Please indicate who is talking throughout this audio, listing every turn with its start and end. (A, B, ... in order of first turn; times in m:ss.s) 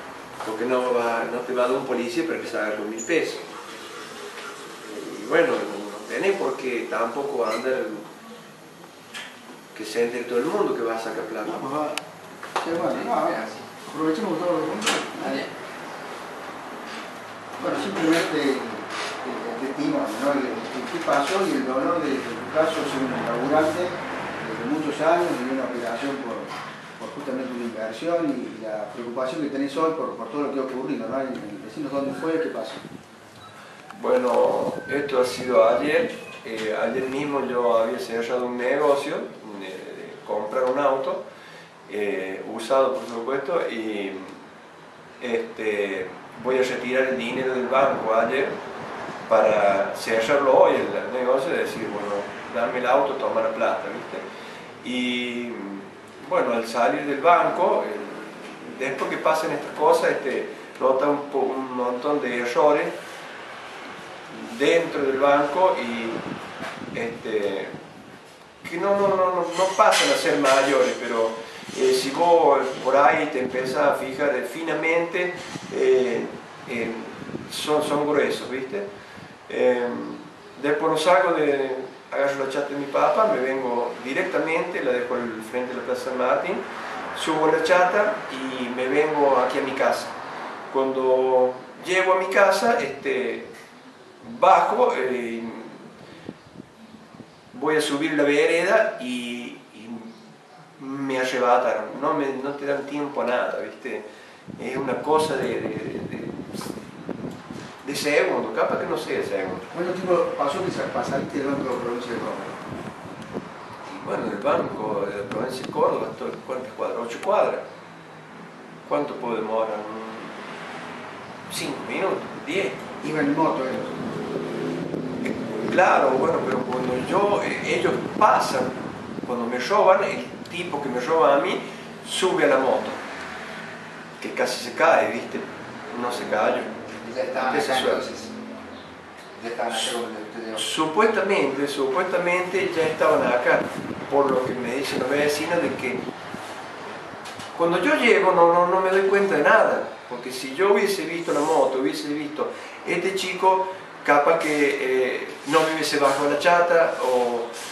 0:00.4-0:03.4 A
0:04.8-0:08.1 A
0:09.7-0:11.7 A
0:11.4-0:12.0 B
0:12.6-0:15.4 B
0:12.8-0:13.7 C
0:17.6-0:32.8 B
0:33.9-0:41.2 A
0:41.9-0:44.4 A
0:45.2-0:48.6 A
0:49.3-0:54.2 A
0:54.8-1:02.9 A
1:04.3-1:06.2 A
1:06.9-1:07.8 A
1:08.6-1:18.9 A
1:19.5-1:30.1 A
1:30.7-1:33.5 A
1:34.2-1:35.9 A
1:37.5-1:40.1 A
1:40.8-1:44.0 A
1:44.6-1:46.5 A
1:47.8-1:49.7 A
1:49.7-1:52.6 B
1:53.9-1:57.6 A
1:58.8-2:00.4 A
2:01.5-2:02.8 A
2:03.0-2:04.0 B
2:05.3-2:13.0 A
2:14.2-2:16.7 A
2:17.0-2:18.3 C
2:17.4-2:18.1 A
2:19.4-2:20.6 C
2:20.6-2:26.0 A
2:27.5-2:37.5 A